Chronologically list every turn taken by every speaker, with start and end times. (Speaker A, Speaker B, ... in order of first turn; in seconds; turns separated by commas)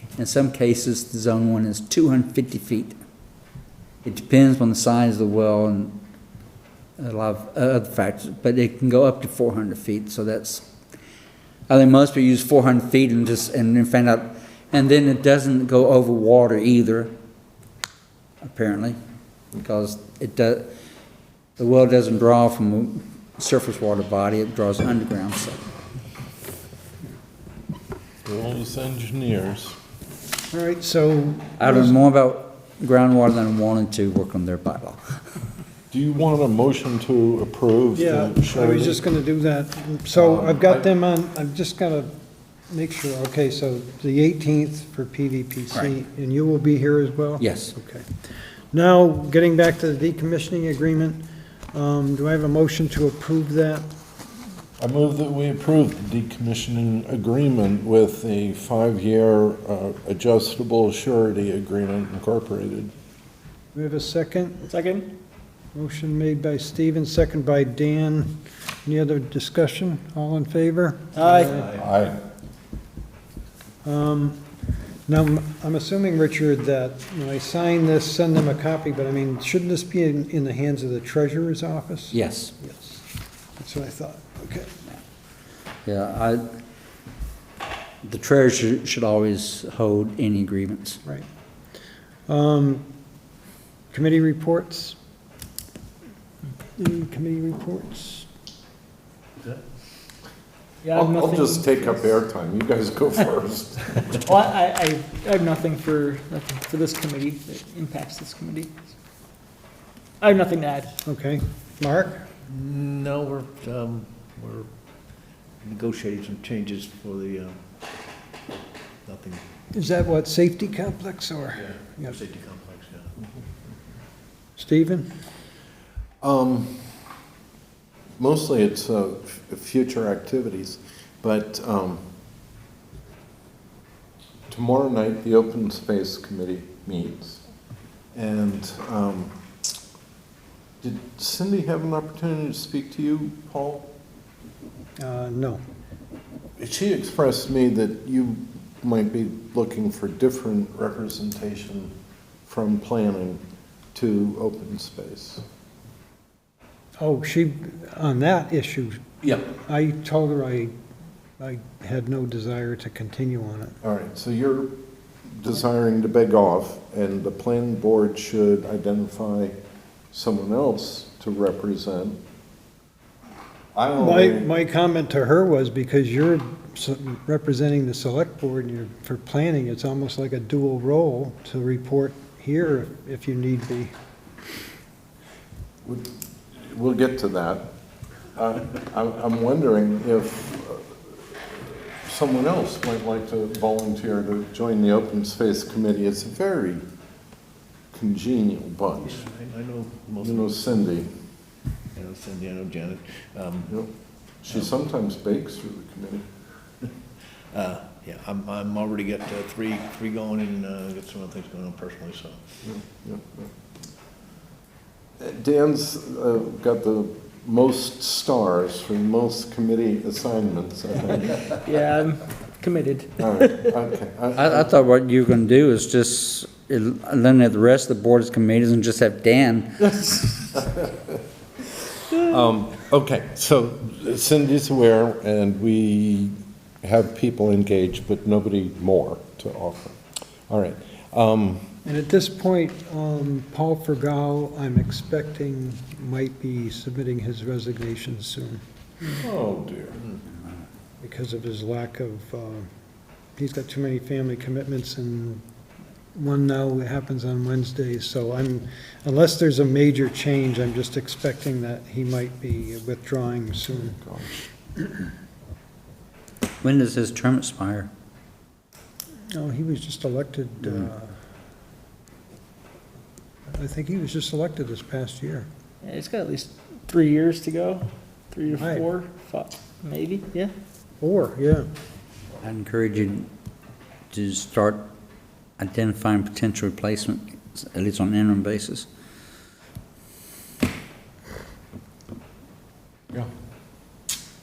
Speaker A: 0.2-3.0, Speaker A: 4.0-6.0, Speaker A: 7.0-10.7, Speaker A: 11.7-17.1, Speaker A: 18.4-19.0, Speaker A: 19.6-20.7, Speaker A: 21.6-25.6, Speaker B: 28.2-29.8, Speaker C: 30.5-32.0, Speaker A: 31.6-35.0, Speaker B: 35.9-39.0, Speaker C: 38.0-42.1, Speaker B: 40.1-40.9, Speaker C: 42.7-53.8, Speaker A: 47.4-47.7, Speaker B: 54.8-62.9, Speaker C: 63.7-64.7, Speaker D: 64.7-65.1, Speaker C: 65.7-68.3, Speaker C: 68.8-71.8, Speaker D: 71.1-71.6, Speaker B: 71.7-72.2, Speaker C: 73.8-74.4, Speaker C: 75.1-83.0, Speaker A: 82.1-82.5, Speaker C: 83.6-84.7, Speaker A: 85.8-86.5, Speaker A: 88.0-91.0, Speaker C: 92.3-92.8, Speaker C: 93.9-95.0, Speaker C: 96.8-98.3, Speaker D: 100.8-101.9, Speaker B: 100.9-104.1, Speaker D: 104.2-108.7, Speaker D: 110.2-111.0, Speaker C: 111.0-112.3, Speaker E: 112.5-114.7, Speaker E: 115.6-117.5, Speaker E: 119.0-119.4, Speaker C: 119.7-122.2, Speaker E: 121.7-123.2, Speaker C: 124.6-125.0, Speaker B: 126.2-126.9, Speaker B: 128.2-132.0, Speaker B: 134.5-137.4, Speaker B: 138.1-139.3, Speaker B: 140.8-143.9, Speaker C: 145.0-145.6, Speaker B: 146.6-151.9, Speaker B: 152.4-153.4, Speaker B: 153.9-155.4, Speaker C: 157.0-160.7, Speaker C: 161.4-163.8, Speaker B: 163.8-164.7, Speaker B: 165.4-169.6, Speaker B: 170.1-172.2, Speaker B: 173.7-174.5, Speaker C: 174.0-183.9, Speaker B: 185.8-187.7, Speaker B: 188.3-196.8, Speaker B: 197.9-199.2, Speaker E: 199.2-200.5, Speaker B: 200.2-201.1, Speaker E: 201.9-203.7, Speaker B: 204.4-206.3, Speaker E: 207.5-212.4, Speaker B: 212.6-213.5, Speaker B: 215.2-221.5, Speaker D: 221.6-223.7, Speaker B: 223.2-224.7, Speaker A: 224.3-229.8, Speaker D: 229.9-230.4, Speaker B: 232.1-240.0, Speaker B: 240.5-241.7, Speaker C: 241.8-248.6, Speaker B: 249.0-250.1, Speaker C: 251.0-252.7, Speaker C: 253.4-255.4, Speaker C: 256.1-264.0, Speaker B: 264.0-264.4, Speaker A: 266.6-267.9, Speaker C: 269.3-271.1, Speaker C: 273.5-275.5, Speaker D: 275.8-280.5, Speaker C: 278.6-278.9, Speaker C: 281.0-281.7, Speaker A: 282.4-283.3, Speaker A: 284.1-284.9, Speaker A: 285.6-288.9